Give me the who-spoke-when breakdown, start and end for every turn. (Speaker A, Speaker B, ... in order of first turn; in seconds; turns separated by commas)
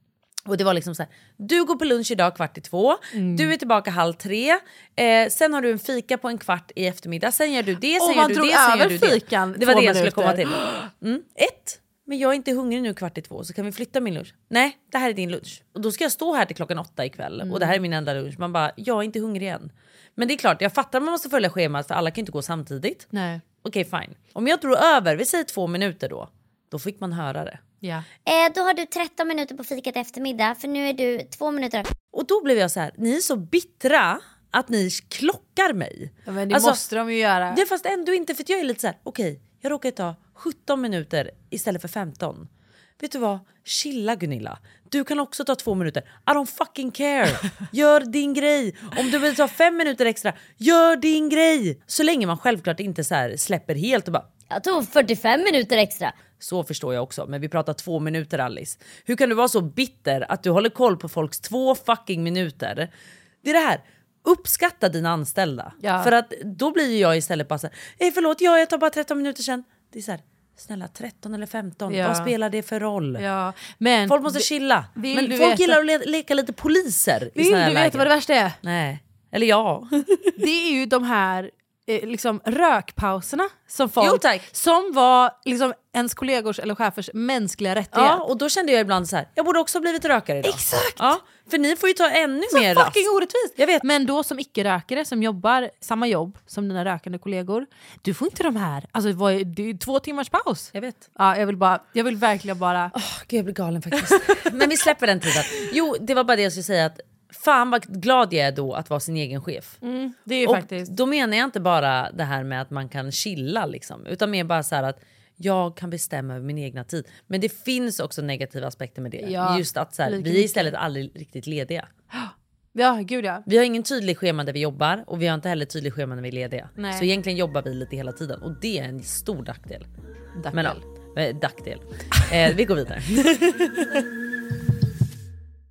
Speaker A: 0.5-23.1, Speaker B: 3.1-3.5, Speaker B: 8.0-10.8, Speaker B: 17.4-17.8, Speaker B: 23.1-23.4, Speaker A: 23.6-27.6, Speaker C: 28.3-31.9, Speaker A: 32.1-36.8, Speaker B: 36.3-37.6, Speaker A: 37.5-42.5, Speaker A: 43.0-54.3, Speaker C: 54.5-56.1, Speaker A: 56.4-62.9, Speaker A: 63.4-73.2, Speaker B: 65.8-66.1, Speaker B: 71.9-72.3, Speaker B: 73.2-75.8, Speaker A: 74.1-78.1, Speaker B: 77.3-78.6, Speaker A: 78.6-80.4, Speaker B: 80.4-88.2, Speaker A: 84.0-84.5, Speaker A: 87.9-93.0, Speaker B: 90.4-91.2, Speaker B: 92.5-102.9, Speaker A: 93.6-93.8, Speaker A: 100.7-101.0, Speaker A: 102.9-109.8, Speaker B: 103.9-104.9, Speaker B: 109.8-110.9, Speaker A: 110.4-121.9, Speaker B: 119.2-120.8, Speaker B: 122.1-123.4, Speaker A: 123.5-129.9, Speaker B: 126.8-127.1, Speaker B: 130.4-130.8, Speaker A: 130.5-133.9